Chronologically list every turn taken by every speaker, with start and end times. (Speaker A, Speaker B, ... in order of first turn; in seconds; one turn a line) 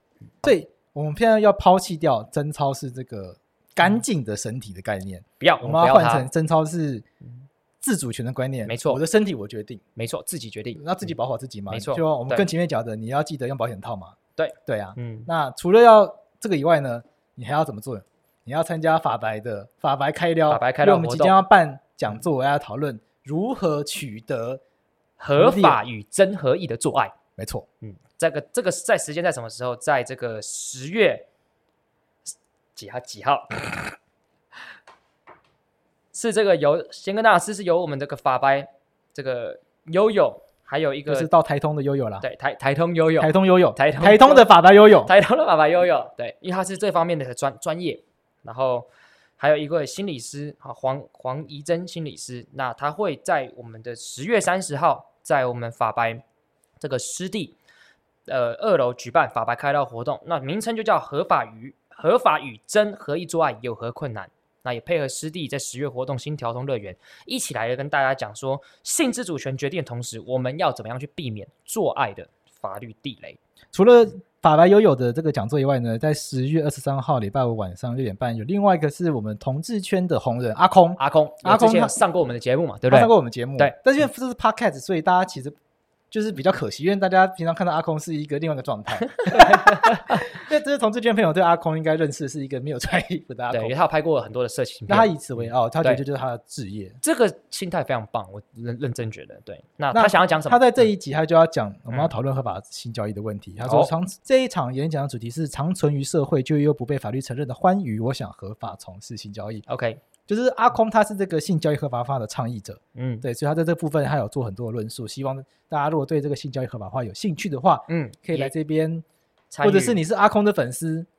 Speaker A: 0.4-7.0
Speaker B: 5.4-6.3
Speaker A: 7.8-9.8
Speaker B: 8.7-9.0
Speaker B: 10.0-10.9
Speaker A: 10.8-24.6
Speaker B: 11.7-12.5
Speaker B: 14.4-15.3
Speaker B: 20.5-21.4
Speaker B: 25.2-27.1
Speaker A: 25.4-25.8
Speaker A: 27.4-27.7
Speaker B: 27.8-31.3
Speaker B: 32.8-34.0
Speaker B: 36.1-41.3
Speaker A: 41.1-42.2
Speaker B: 42.2-56.2
Speaker A: 43.2-45.1
Speaker B: 56.8-57.6
Speaker B: 58.3-73.4
Speaker A: 73.7-82.0
Speaker B: 81.0-83.8
Speaker A: 82.9-85.6
Speaker A: 86.1-93.8
Speaker B: 89.2-90.2
Speaker B: 93.5-96.0
Speaker A: 94.9-97.0
Speaker B: 97.0-100.9
Speaker A: 99.9-109.7
Speaker B: 103.6-103.9
Speaker B: 109.7-110.0
Speaker A: 110.3-119.0
Speaker B: 113.0-113.3
Speaker B: 117.9-118.5
Speaker B: 119.5-120.0
Speaker A: 119.6-121.1